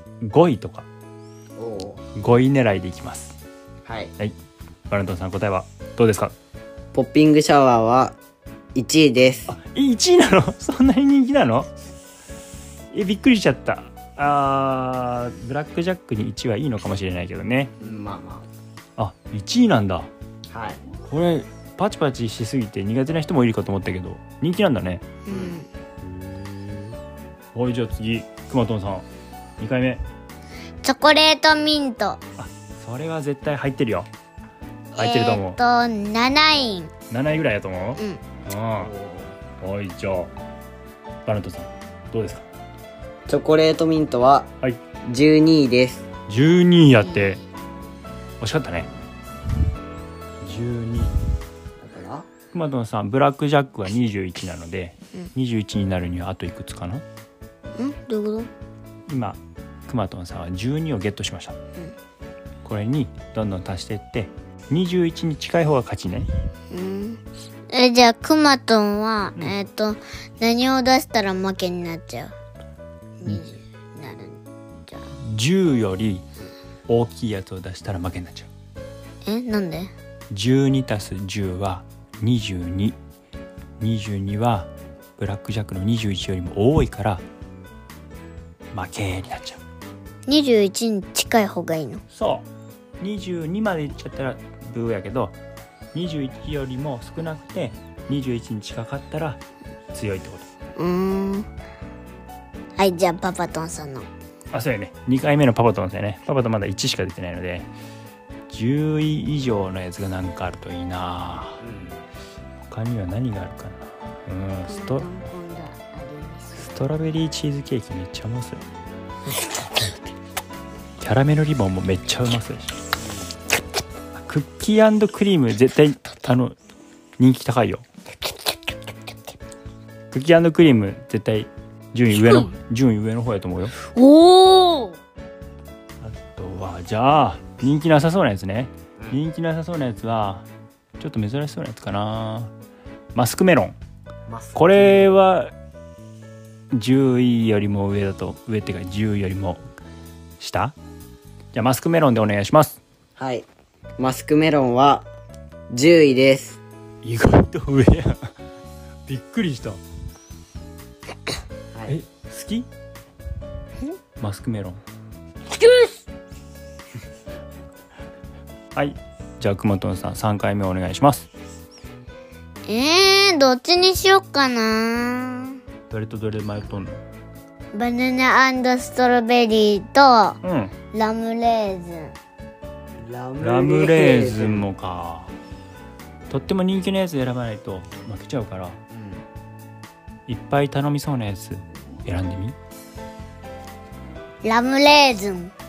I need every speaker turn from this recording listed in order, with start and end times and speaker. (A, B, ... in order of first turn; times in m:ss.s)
0:00.2-0:00.9 A
0:01.6-0:02.0 B
0:02.1-0:03.4 A
0:03.8-0:04.1 B
0:04.9-0:06.3 A
0:06.9-0:08.2 B
0:08.7-0:09.5 B
0:09.5-0:11.7 A
0:12.9-0:17.7 A
0:17.8-0:18.4 B
0:19.0-0:20.1 A
0:20.5-0:20.8 B
0:21.0-0:25.0 A
0:25.2-0:25.7 C
0:25.3-0:27.0 B
0:27.5-0:29.1 A
0:29.6-0:30.0 A
0:30.8-0:32.2 C
0:32.4-0:34.1 A
0:34.9-0:35.6 A
0:34.9-0:36.9 C
0:37.1-0:38.9 A
0:38.8-0:39.3 B
0:39.6-0:40.3 A
0:41.2-0:42.5 A
0:43.3-0:44.5 B
0:45.0-0:46.0 B
0:46.3-0:47.4 A
0:48.4-0:48.9 A
0:50.4-0:51.1 A
0:51.8-0:52.3 B
0:52.5-0:57.0 A
0:57.8-0:58.5 C
0:59.1-1:01.6 A
1:02.6-1:06.3 A
1:06.7-1:12.3 C
1:13.2-1:15.1 C
1:15.1-1:16.2 A
1:16.9-1:18.5 A
1:19.2-1:19.9 C
1:20.3-1:23.0 A
1:23.8-1:27.2 A
1:28.7-1:29.6 A
1:30.3-1:32.0 C
1:32.1-1:32.4 A
1:33.0-1:35.4 A
1:35.9-1:39.4 A
1:39.9-1:40.5 A
1:40.8-1:41.5 C
1:42.8-1:44.1 C
1:44.5-1:47.7 A
1:48.5-1:51.6 A
1:51.6-1:52.0 B
1:52.7-1:55.1 A
1:54.7-1:56.7 C
1:56.6-1:58.6 A
2:01.0-2:02.8 A
2:03.0-2:03.4 B
2:04.1-2:06.6 A
2:07.2-2:07.8 A
2:10.1-2:13.7 A
2:12.2-2:12.5 C
2:13.8-2:15.0 C
2:16.0-2:20.4 A
2:21.0-2:22.5 A
2:23.1-2:23.8 A
2:24.3-2:25.1 B
2:24.5-2:25.5 A
2:26.7-2:29.6 A
2:30.4-2:30.8 A
2:31.5-2:32.8 A
2:33.2-2:33.5 B
2:34.0-2:35.1 B
2:35.7-2:36.6 B
2:37.0-2:38.3 A
2:39.1-2:39.8 A
2:41.9-2:42.7 A
2:44.2-2:44.8 A
2:45.5-2:46.0 C
2:48.7-2:51.3 A
2:52.7-2:55.6 C
2:55.9-2:57.0 A
2:57.7-3:00.4 C
3:00.4-3:00.7 A
3:00.9-3:02.1 C
3:03.0-3:04.6 B
3:03.4-3:05.3 A
3:06.3-3:08.8 A
3:08.9-3:09.2 B
3:10.3-3:12.6 A
3:14.4-3:15.5 C